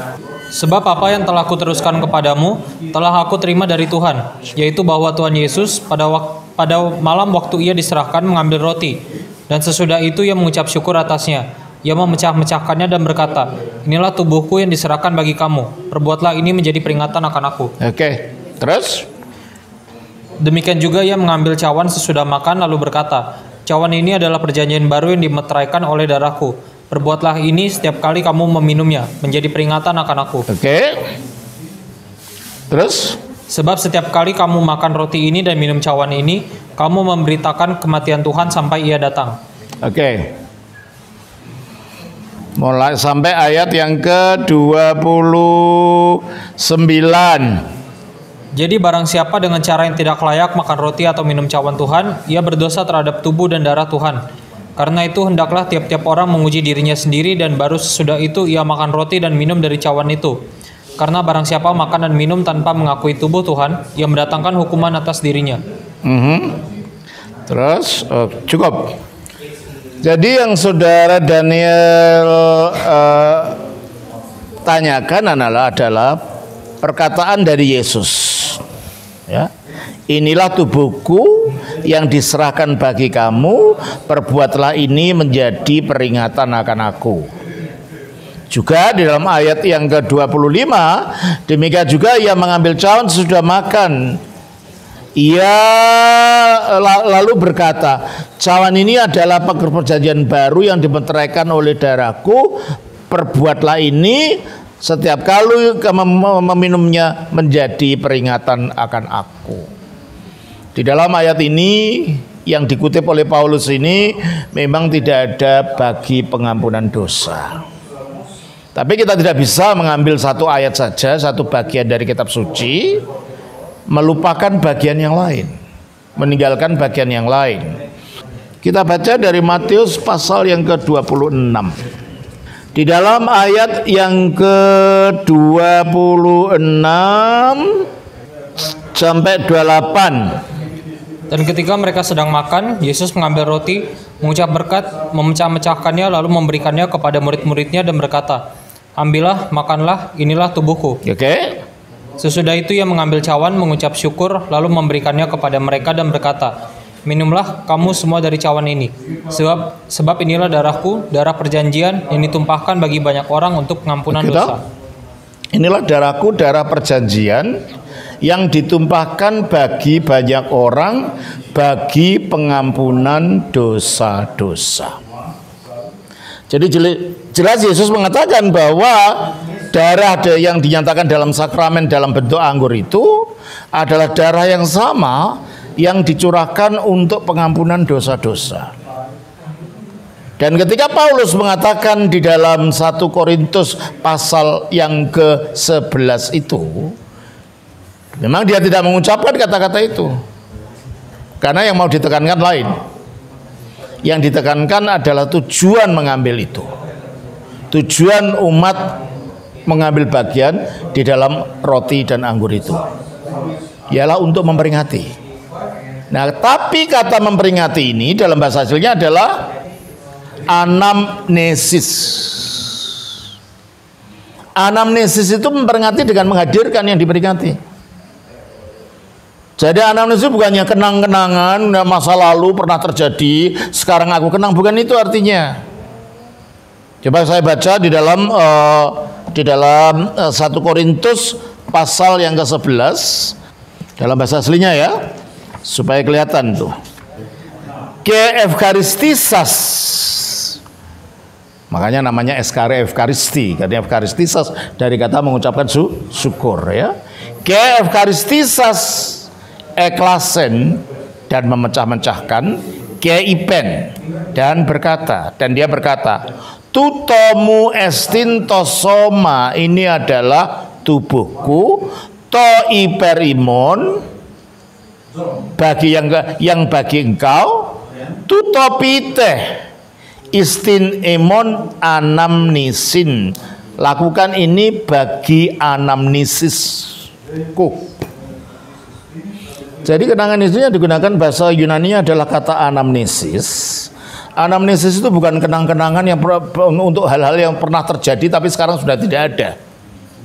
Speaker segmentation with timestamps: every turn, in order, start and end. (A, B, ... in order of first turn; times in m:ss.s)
0:00.5-0:17.7 A
0:17.8-0:19.1 B
0:20.4-0:30.4 A
0:30.5-0:31.0 B
0:32.7-0:33.2 B
0:33.5-0:39.4 A
0:39.8-0:40.3 B
0:42.6-0:47.6 B
0:48.5-0:54.2 A
0:54.8-1:00.4 A
1:01.0-1:05.6 A
1:06.0-1:06.6 B
1:07.5-1:09.0 B
1:10.0-1:13.6 B
1:14.6-1:16.2 B
1:16.8-1:18.6 B
1:20.1-1:27.3 B
1:28.5-1:34.2 B
1:35.2-1:42.6 B
1:43.1-1:49.7 B
1:50.7-1:57.6 B
1:58.7-2:03.0 B
2:03.9-2:05.6 B
2:06.2-2:07.8 B
2:08.6-2:11.7 B
2:12.7-2:17.8 B
2:18.9-2:20.3 B
2:21.3-2:28.4 A
2:29.0-2:31.0 A
2:31.0-2:31.6 B
2:32.2-2:36.5 A
2:37.0-2:44.6 A
2:44.1-2:44.6 B
2:45.5-2:47.6 B
2:48.2-2:55.0 B
2:56.5-3:08.7 B
3:10.4-3:16.9 B
3:18.2-3:20.1 B
3:21.4-3:22.7 B
3:24.0-3:26.7 B
3:27.7-3:28.9 B
3:29.7-3:32.8 B
3:33.9-3:35.1 B
3:36.1-3:39.3 B
3:40.5-3:42.9 B
3:44.6-3:47.6 B
3:49.6-3:55.6 B
3:57.0-4:03.4 B
4:04.0-4:04.9 B
4:05.6-4:06.7 B
4:08.0-4:10.6 B
4:11.7-4:16.9 B
4:17.4-4:34.0 B
4:35.6-4:39.6 B
4:40.3-4:47.8 B
4:49.8-4:59.5 B